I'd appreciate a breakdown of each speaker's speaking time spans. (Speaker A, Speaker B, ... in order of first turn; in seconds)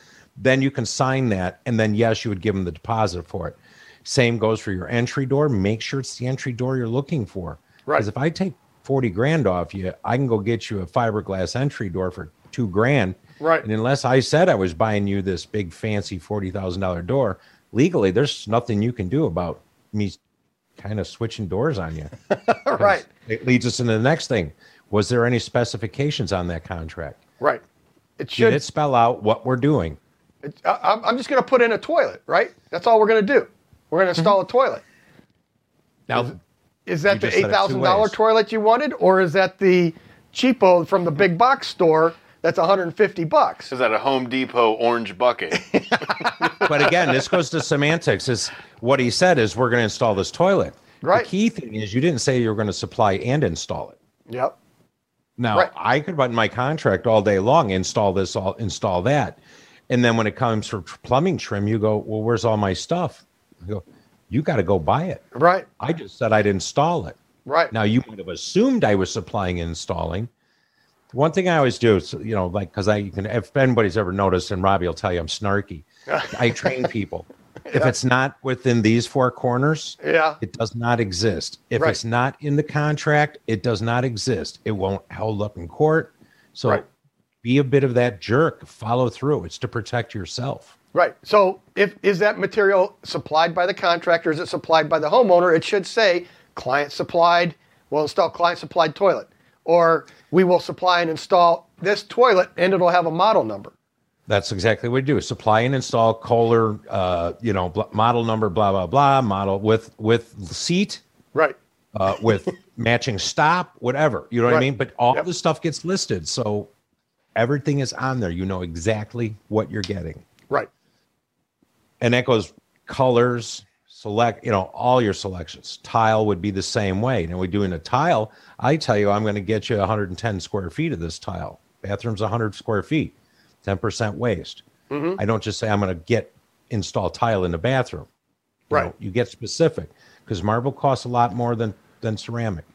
Speaker A: 0.4-20.2, 20.8-27.2, 28.4-30.0, 36.1-36.4, 37.1-38.2, 46.6-54.0, 55.4-59.4, 59.9-65.2, 65.8-67.2, 67.7-70.3, 71.1-86.8, 87.4-90.7, 104.3-111.0, 111.9-116.7, 117.4-120.2, 122.0-134.6, 135.2-138.1, 138.7-142.7
Speaker B: 13.4-13.7, 22.3-23.1, 28.2-28.6, 30.4-34.8, 36.9-43.7, 45.7-46.7, 51.0-51.3, 54.3-54.5, 65.3-65.7, 67.5-67.7, 76.1-76.8, 77.7-78.0, 80.0-80.4, 90.9-103.7, 114.5-115.3, 134.9-135.2
Speaker C: 43.7-46.4